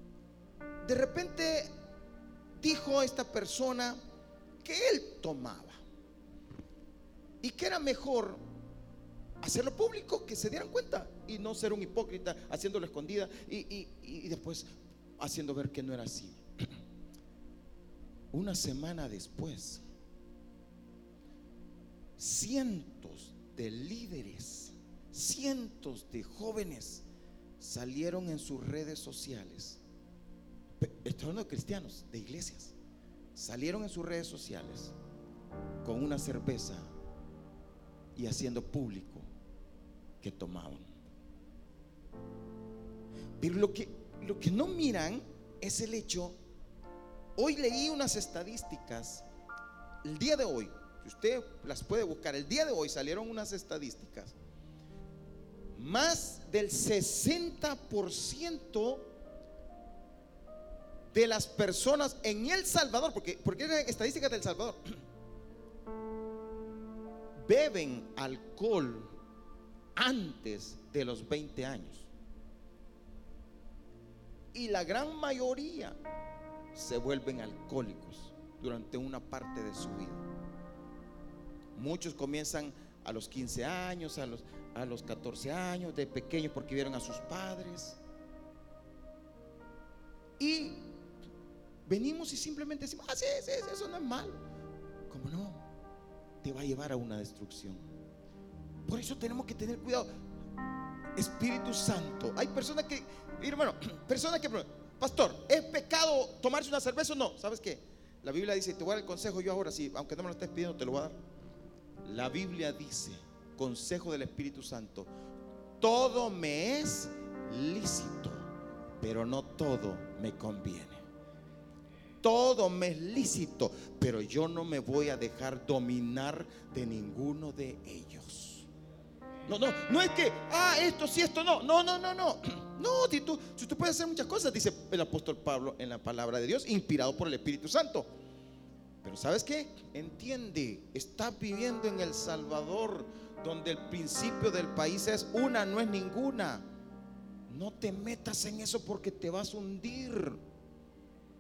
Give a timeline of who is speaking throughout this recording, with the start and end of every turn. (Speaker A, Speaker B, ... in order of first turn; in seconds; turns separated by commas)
Speaker A: 0.8-1.7, Speaker A: 2.6-4.0, Speaker A: 4.6-5.8, Speaker A: 7.4-8.4, Speaker A: 9.4-16.4, Speaker A: 18.3-19.8, Speaker A: 22.2-27.1, Speaker A: 27.6-29.8, Speaker A: 30.8-32.8, Speaker A: 33.4-35.0, Speaker A: 35.8-36.9, Speaker A: 38.2-39.3, Speaker A: 40.2-40.9, Speaker A: 43.4-46.4, Speaker A: 47.4-49.2, Speaker A: 50.0-54.4, Speaker A: 55.8-59.1, Speaker A: 61.1-64.8, Speaker A: 67.5-69.1, Speaker A: 70.0-72.1, Speaker A: 74.5-76.0, Speaker A: 76.8-80.3, Speaker A: 81.7-88.0, Speaker A: 90.4-90.8, Speaker A: 91.9-94.4, Speaker A: 95.1-95.6, Speaker A: 96.4-97.9, Speaker A: 98.9-100.1, Speaker A: 101.2-111.2, Speaker A: 112.0-115.1, Speaker A: 115.8-118.5, Speaker A: 119.0-121.0, Speaker A: 122.2-128.7, Speaker A: 129.5-138.1, Speaker A: 139.0-146.6, Speaker A: 147.5-150.4